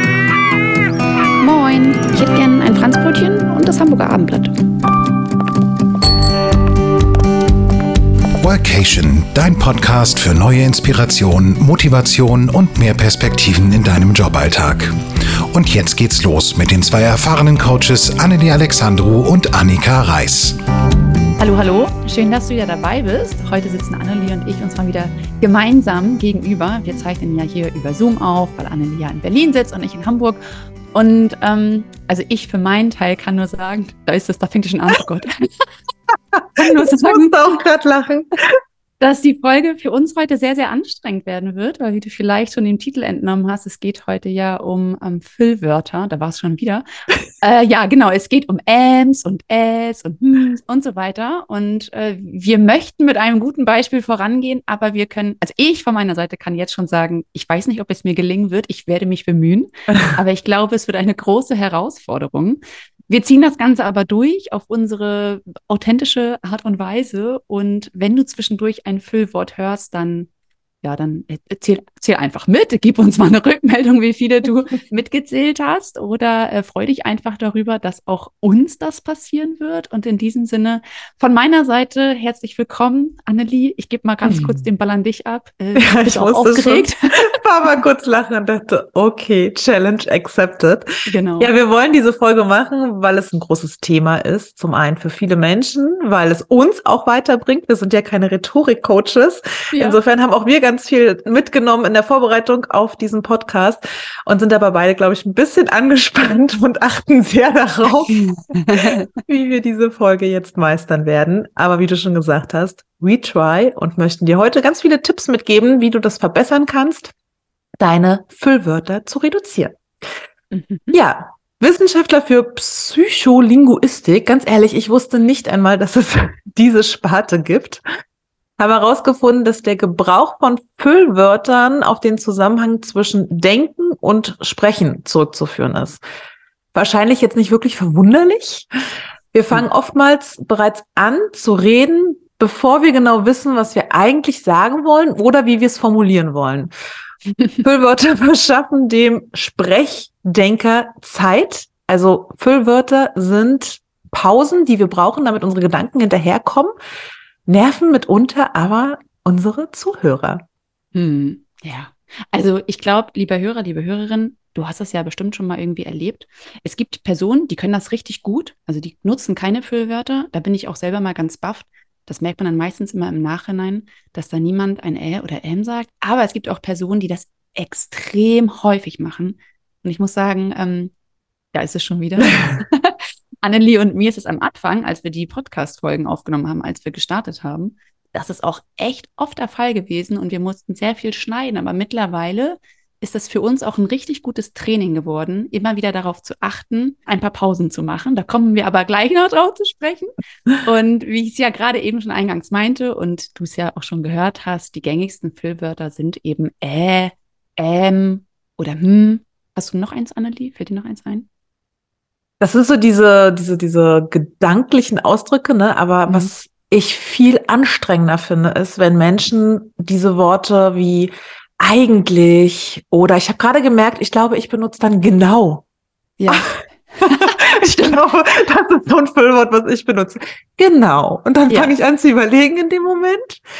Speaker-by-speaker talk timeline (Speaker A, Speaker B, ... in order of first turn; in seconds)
Speaker A: 1.4-4.5, 21.4-30.4, 30.9-35.7, 36.6-37.6, 39.0-46.8, 47.4-70.3, 70.8-87.2, 91.0-91.5, 99.7-100.0, 108.1-109.1, 120.5-121.0, 160.9-180.9, 181.5-211.3, 216.1-216.3, 226.2-227.8, 231.5-231.8
Speaker B: 8.4-14.9, 15.5-20.6
Speaker C: 36.3-38.3, 84.2-84.6, 85.8-90.9, 91.4-117.1, 117.8-119.8, 120.9-127.8, 128.6-136.0, 136.7-138.7, 139.3-146.7, 147.6-156.7, 157.5-160.4, 212.4-225.6, 227.1-233.4